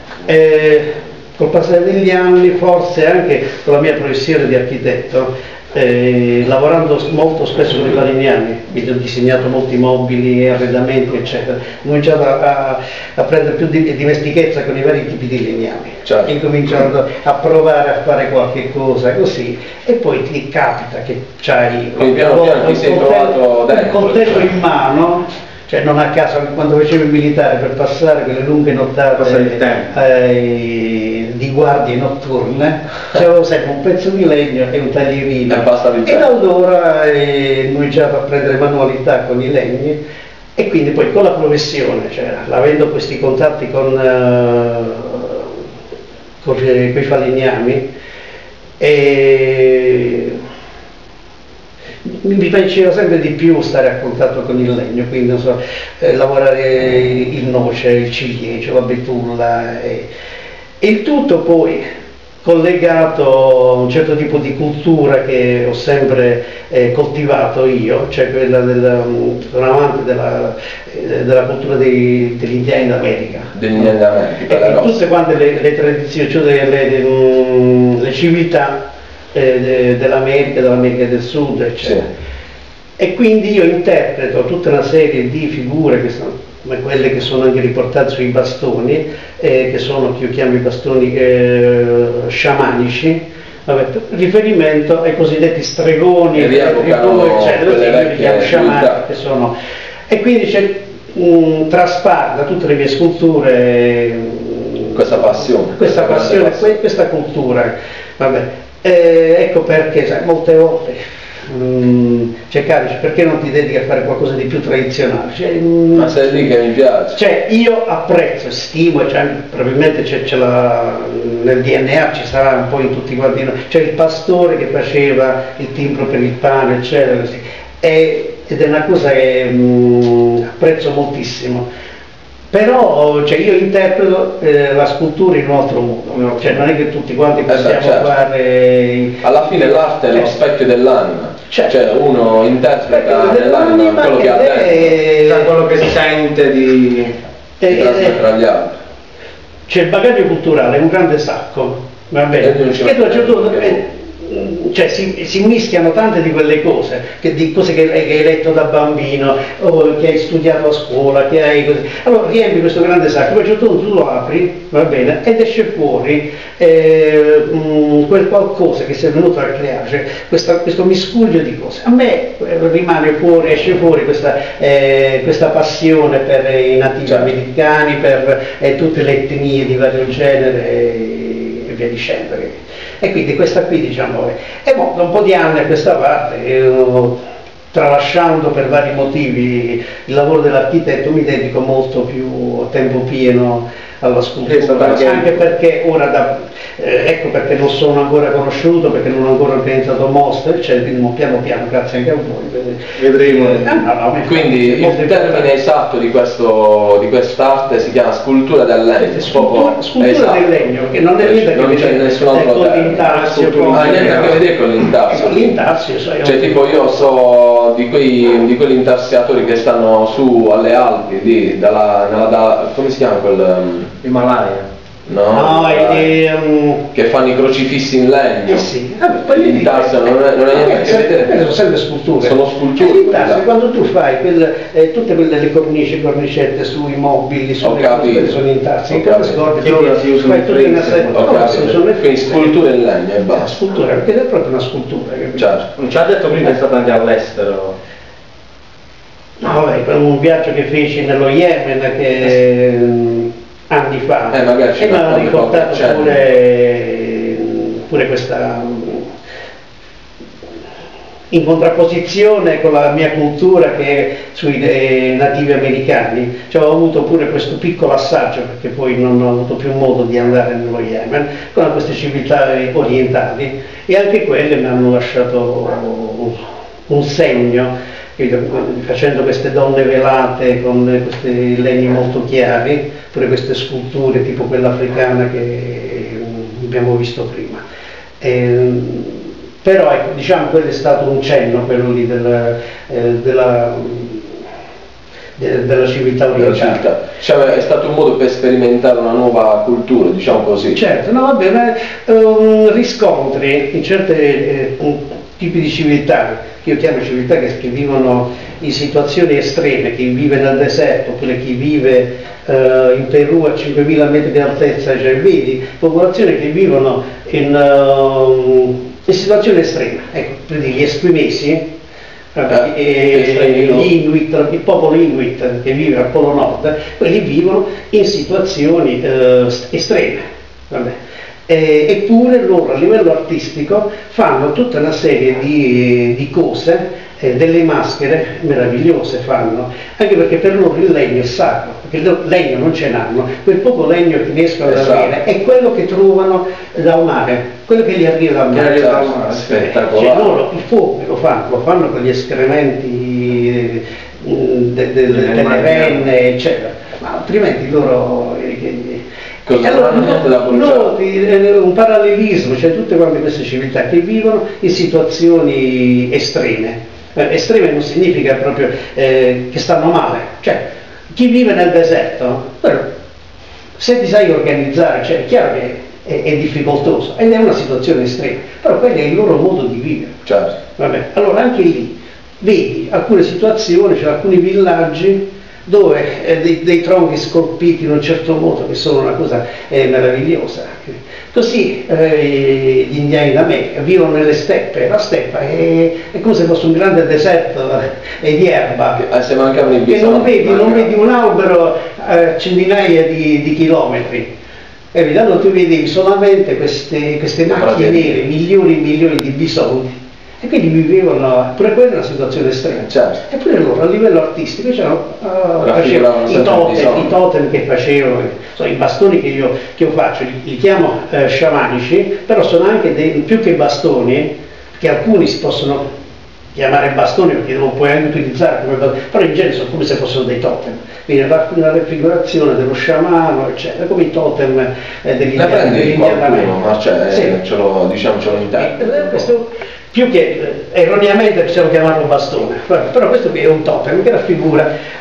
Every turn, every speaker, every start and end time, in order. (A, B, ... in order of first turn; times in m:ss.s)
0:00.2-0:40.0 A
0:22.0-0:24.5 B
0:29.2-0:29.9 C
0:35.5-0:36.3 B
0:40.6-0:45.6 A
0:46.4-0:47.8 A
0:48.8-0:50.4 A
0:52.0-1:00.1 A
1:00.8-1:01.8 A
1:02.4-1:13.9 A
1:13.5-1:15.0 B
1:14.4-1:18.8 A
1:19.3-1:22.1 A
1:23.0-1:39.5 A
1:36.3-1:39.0 B
1:40.1-1:56.3 A
1:44.9-1:46.7 B
1:55.9-1:57.2 B
1:57.1-2:11.6 A
2:12.5-2:19.6 A
2:16.1-2:16.5 C
2:17.5-2:18.1 B
2:19.2-2:24.9 B
2:22.8-2:25.5 A
2:25.2-2:27.2 C
2:27.6-2:28.2 A
2:27.7-2:28.8 B
2:29.7-3:07.2 A
2:32.4-2:33.8 B
3:07.7-3:25.5 A
3:14.4-3:15.4 C
3:23.0-3:23.7 C
3:24.2-3:30.5 B
3:29.0-3:34.5 A
3:31.2-3:33.1 B
3:33.2-3:34.4 C
3:33.7-3:35.6 B
3:35.0-3:36.8 A
3:36.2-3:43.9 B
3:44.0-3:44.7 C
3:45.0-3:46.1 B
3:45.3-3:46.9 A
3:46.9-3:48.7 B
3:48.5-4:02.6 A
3:49.3-3:51.5 B
3:52.2-3:53.4 B
3:57.6-3:59.4 B
3:59.5-4:01.7 C
4:01.1-4:03.5 B
4:03.3-4:05.5 A
4:05.4-4:05.7 B
4:05.8-4:07.7 C
4:09.4-4:19.1 A
4:14.3-4:16.2 B
4:21.3-4:36.4 A
4:36.9-4:47.6 A
4:48.2-4:54.4 A
4:55.4-4:56.8 A
4:56.3-5:00.8 B
5:00.7-5:21.6 A
5:22.3-5:31.0 A
5:23.1-5:23.9 B
5:31.5-6:12.9 A
5:44.6-5:45.1 B
5:48.5-5:49.6 C
5:48.7-5:50.4 B
5:55.1-5:56.0 C
5:59.4-6:00.9 B
6:13.8-6:20.2 A
6:20.2-6:20.5 B
6:20.7-6:39.0 A
6:39.0-6:40.9 B
6:39.9-6:44.3 A
6:44.9-7:05.8 A
6:47.5-6:48.1 B
6:52.8-6:53.2 B
6:55.6-6:57.1 B
7:06.5-7:17.4 A
7:15.3-7:19.2 B
7:18.5-7:24.7 A